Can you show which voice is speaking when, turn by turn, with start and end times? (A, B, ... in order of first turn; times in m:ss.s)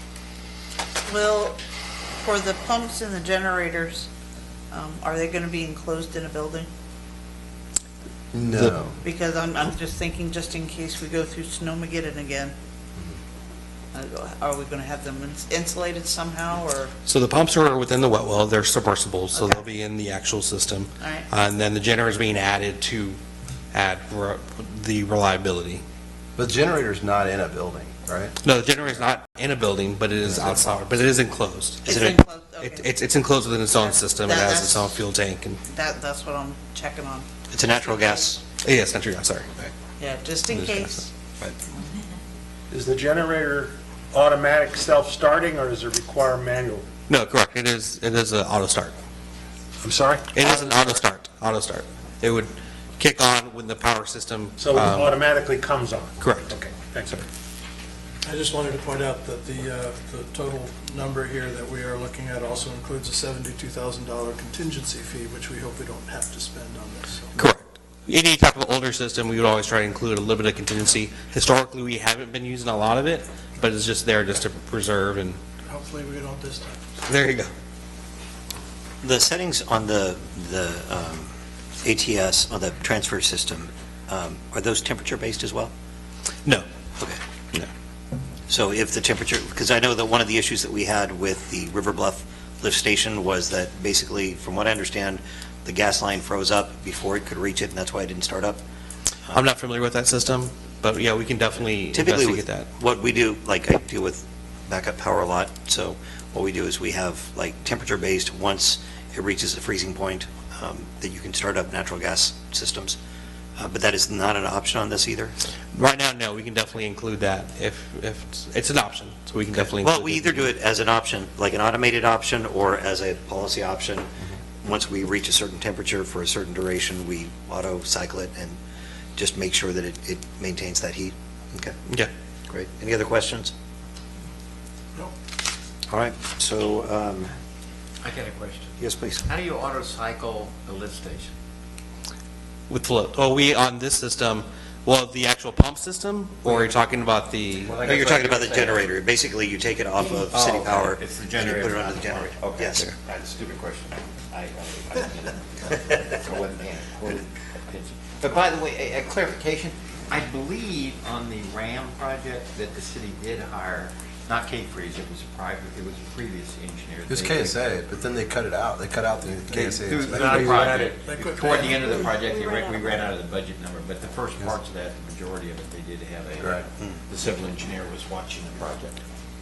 0:01.1-0:01.6 A
0:02.2-0:04.1 A
0:04.7-0:06.7 A
0:08.3-0:09.0 B
0:09.0-0:12.6 A
0:13.9-0:16.9 A
0:17.1-0:23.2 C
0:19.3-0:19.6 A
0:21.0-0:21.3 A
0:23.7-0:25.8 C
0:26.4-0:28.4 B
0:28.4-0:31.9 C
0:31.9-0:32.2 D
0:31.9-0:32.9 A
0:32.6-0:35.6 C
0:33.7-0:34.9 A
0:35.7-0:38.1 A
0:37.5-0:38.4 D
0:38.6-0:39.5 C
0:40.0-0:41.1 A
0:40.5-0:41.1 C
0:42.7-0:46.9 E
0:47.1-0:48.9 C
0:49.8-0:50.9 E
0:49.9-0:50.7 A
0:50.3-0:55.2 C
0:54.6-0:57.2 E
0:54.6-0:57.2 A
0:56.2-0:56.5 C
0:58.3-1:07.3 F
1:07.4-1:15.4 C
1:15.7-1:16.8 F
1:17.1-1:17.5 C
1:19.0-1:21.3 D
1:21.8-1:25.7 D
1:28.5-1:38.6 D
1:39.3-1:42.7 C
1:41.9-1:53.0 D
1:53.6-1:55.4 D
1:55.7-2:00.4 C
1:59.5-2:04.1 D
2:04.6-2:08.6 D
2:09.2-2:11.8 D
2:12.5-2:13.5 D
2:15.9-2:17.3 D
2:18.0-2:21.3 G
2:18.8-2:19.3 D
2:22.7-2:27.8 C
2:27.6-2:29.0 G
2:27.8-2:32.9 D
2:30.1-2:47.6 G
2:47.1-2:50.7 B
2:49.5-2:59.0 G
2:50.1-2:51.7 E
2:56.4-2:56.6 B